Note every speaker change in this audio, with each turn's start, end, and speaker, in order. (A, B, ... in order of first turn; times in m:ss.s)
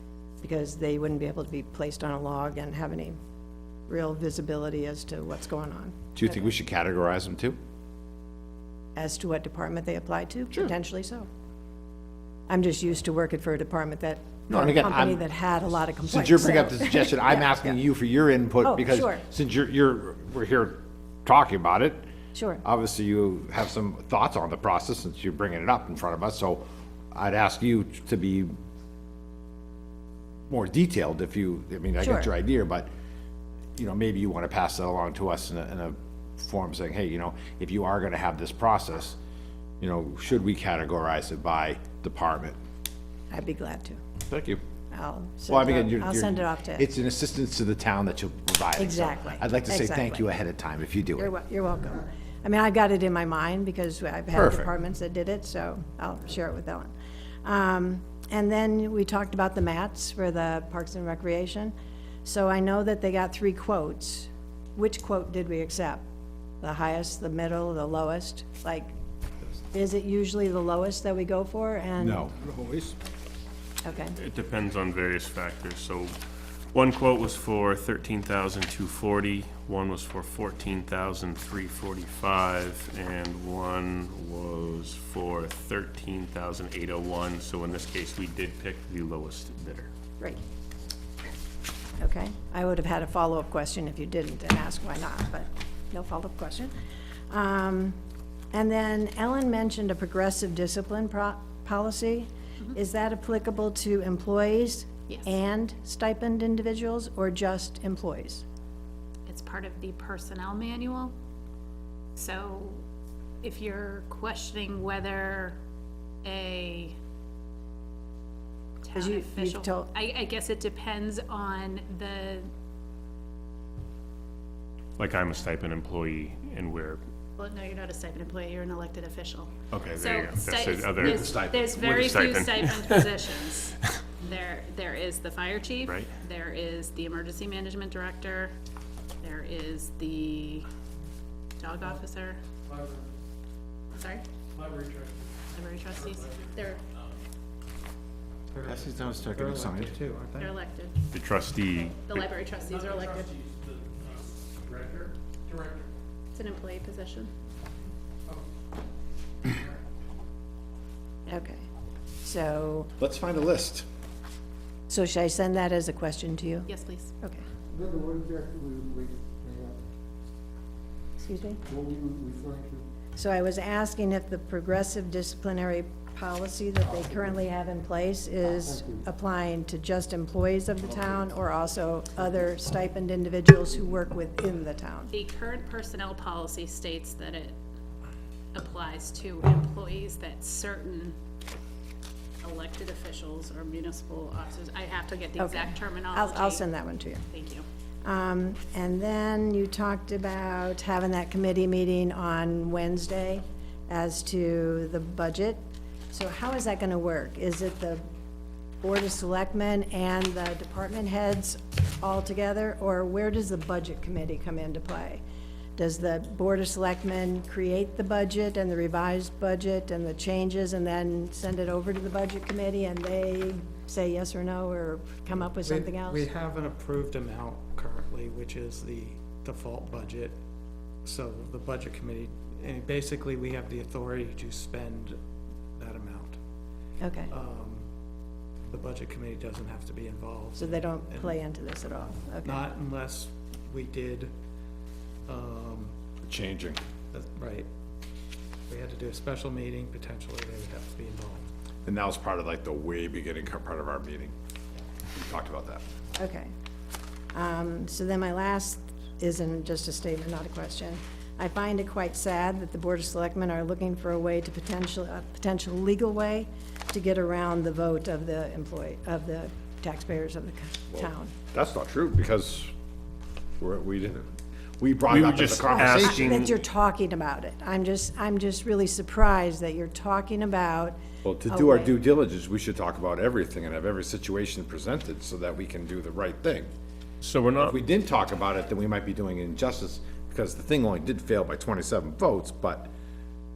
0:00.4-0:03.2 A
0:03.9-0:06.1 A
0:06.2-0:07.6 B
0:09.0-0:11.3 A
0:12.5-0:17.7 A
0:14.5-0:15.2 B
0:16.1-0:22.0 B
0:18.6-0:19.2 A
0:22.4-0:22.6 A
0:22.6-0:28.5 B
0:30.5-0:32.9 B
0:32.0-0:32.3 A
0:33.8-0:39.2 B
0:39.8-0:42.6 B
0:43.3-0:44.0 A
0:44.3-0:44.6 B
0:44.9-0:46.9 A
0:45.5-0:51.3 B
0:48.8-0:50.2 A
0:51.2-0:56.9 A
0:54.3-0:54.7 B
0:57.4-1:01.7 A
1:02.2-1:06.0 A
1:06.6-1:08.9 A
1:09.7-1:12.3 A
1:12.0-1:13.0 B
1:13.8-1:14.2 A
1:14.1-1:16.2 C
1:16.7-1:29.9 C
1:32.0-1:36.7 A
1:37.3-1:38.0 A
1:38.5-1:48.4 A
1:49.3-1:51.1 D
1:52.2-1:52.8 D
1:53.4-1:55.6 D
1:56.2-1:57.0 D
1:58.8-2:02.5 D
1:59.0-1:59.9 A
2:05.0-2:07.0 C
2:07.4-2:18.6 D
2:09.7-2:13.1 C
2:11.0-2:11.8 B
2:15.8-2:16.1 C
2:19.2-2:20.7 D
2:21.6-2:22.4 D
2:24.0-2:24.2 D
2:25.5-2:26.8 D
2:25.9-2:26.5 E
2:28.5-2:30.6 F
2:28.6-2:30.0 B
2:30.4-2:31.0 D
2:31.1-2:32.3 C
2:31.7-2:33.4 D
2:32.5-2:35.7 E
2:36.3-2:37.3 D
2:41.3-2:41.7 A
2:42.2-2:42.9 A
2:43.0-2:43.9 B
2:44.9-2:46.7 A
2:46.7-2:47.1 D
2:47.7-2:49.7 F
2:51.2-2:51.6 A
2:51.7-2:52.8 F
2:53.2-3:05.1 A
3:05.1-3:07.6 D
3:08.5-3:11.2 D
3:12.4-3:16.7 D
3:15.4-3:17.2 A
3:17.3-3:17.6 D
3:18.0-3:28.0 A
3:28.8-3:35.2 A
3:35.8-3:46.3 A
3:45.6-3:50.4 F
3:51.0-3:55.2 F
3:55.8-3:56.4 F
3:57.0-3:57.3 A
3:57.3-3:57.9 F
3:58.6-4:01.4 F
4:00.6-4:02.6 A
4:02.4-4:04.3 F
4:05.3-4:06.0 F
4:06.2-4:06.8 B
4:07.1-4:07.7 F
4:08.7-4:11.5 F
4:11.8-4:14.3 B
4:15.2-4:15.8 B
4:16.2-4:16.5 A
4:17.3-4:31.4 A
4:30.9-4:32.7 B
4:33.6-4:34.3 B
4:34.8-4:36.3 B
4:35.1-4:36.6 C
4:35.7-4:41.0 A
4:41.2-4:46.7 B
4:41.5-4:41.9 A
4:47.2-4:47.8 C
4:47.6-4:52.9 B